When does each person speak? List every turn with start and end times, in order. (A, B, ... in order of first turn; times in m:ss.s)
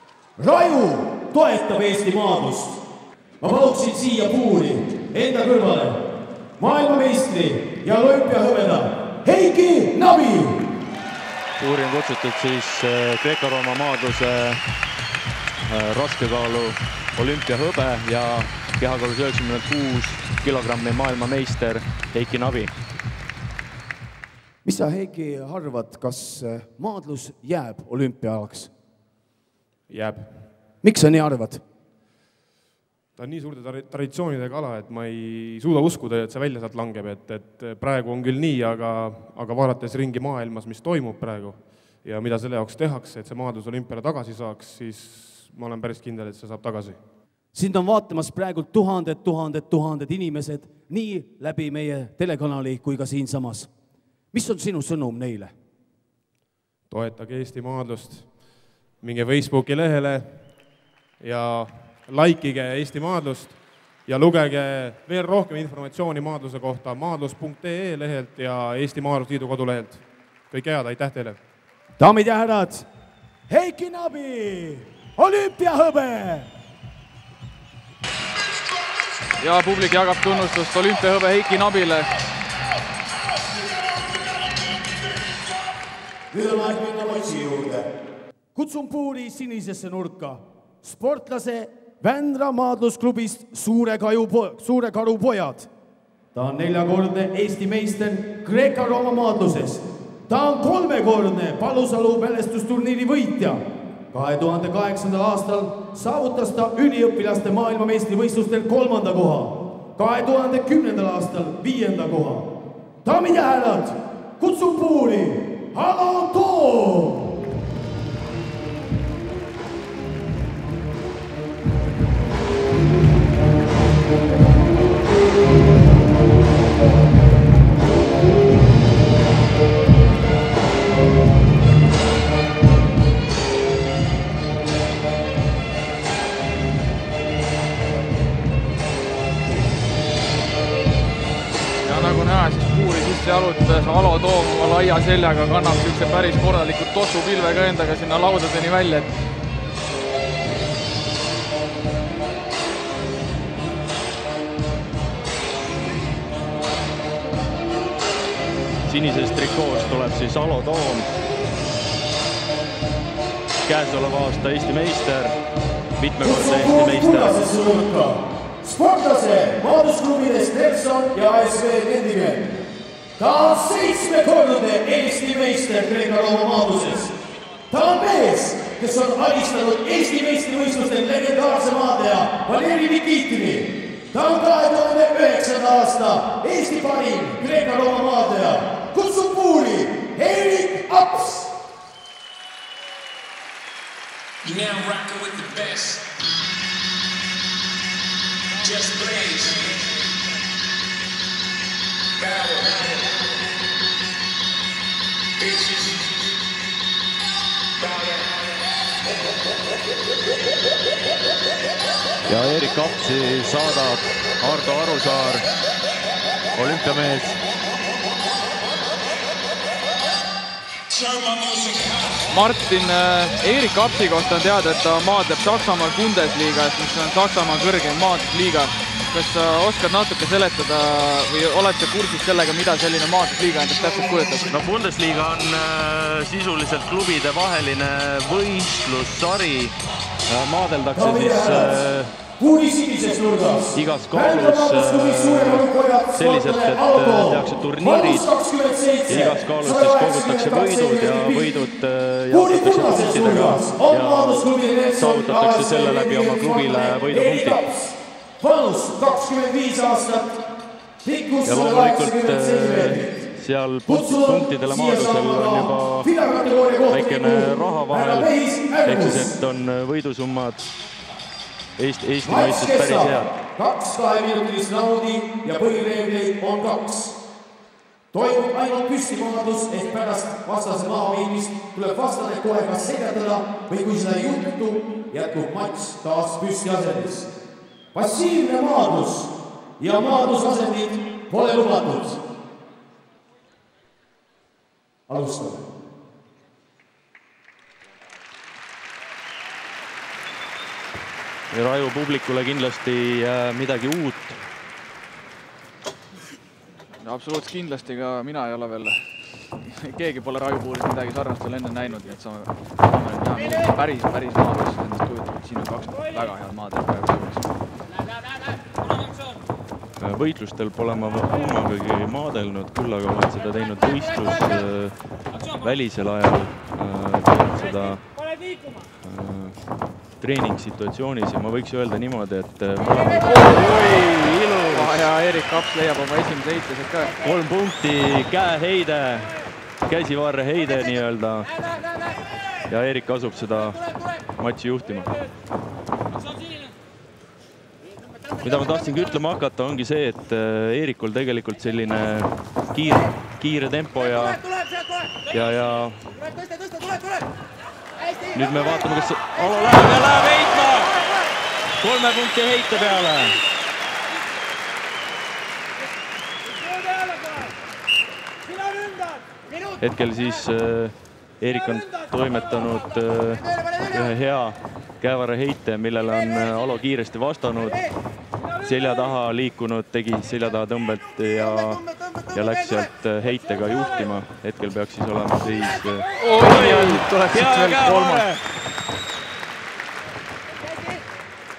0:00.4-0:02.8 A
0:03.4-0:06.0 A
0:06.6-0:10.6 A
0:11.6-0:14.6 B
0:15.6-0:22.7 B
0:24.6-0:28.7 A
0:29.9-0:30.5 C
0:30.8-0:31.6 A
0:33.2-0:47.0 C
0:47.5-0:53.7 A
0:54.3-0:55.5 A
0:56.9-0:58.4 C
0:59.0-1:00.5 C
1:01.2-1:11.4 C
1:12.0-1:12.8 A
1:13.5-1:16.5 A
1:19.4-1:22.2 D
1:26.3-1:27.9 A
1:28.5-1:35.7 A
1:36.3-1:52.5 A
1:53.0-1:57.4 A
2:21.8-2:29.1 D
2:38.8-2:41.1 B
2:43.6-2:45.4 B
2:46.0-2:47.4 B
2:46.2-2:52.5 A
2:53.2-2:57.1 A
2:57.7-3:11.5 A
3:14.4-3:16.0 E
3:18.6-3:19.8 E
3:22.2-3:23.0 E
3:25.4-3:26.0 E
3:27.8-3:28.2 E
3:32.3-3:35.4 B
3:36.5-3:37.4 B
3:40.9-3:42.0 E
3:42.3-3:54.5 D
3:54.5-3:59.7 B
4:00.3-4:02.1 B
4:00.9-4:01.8 A
4:02.4-4:11.6 A
4:03.7-4:08.3 B
4:09.1-4:17.6 B
4:12.3-4:20.4 A
4:21.0-4:23.3 A
4:21.4-4:26.1 B
4:23.8-4:29.3 A
4:26.9-4:28.3 B
4:28.8-4:30.6 B
4:31.8-4:33.3 B
4:32.2-4:37.2 A
4:38.1-4:47.3 A
4:47.9-4:52.2 A
4:55.1-4:55.6 A
5:01.5-5:04.4 B
5:07.0-5:17.5 D
5:20.0-5:24.9 B
5:25.6-5:28.1 B
5:29.0-5:29.6 B
5:30.2-5:35.0 B
5:34.7-5:37.1 D
5:37.2-5:39.3 B
5:39.9-5:41.5 B
5:42.7-5:45.1 B
5:48.4-5:54.4 B
5:55.3-5:56.1 B
5:58.3-6:01.0 B
6:01.8-6:03.4 B
6:09.8-6:17.8 B
6:18.6-6:28.4 B
6:26.2-6:28.2 D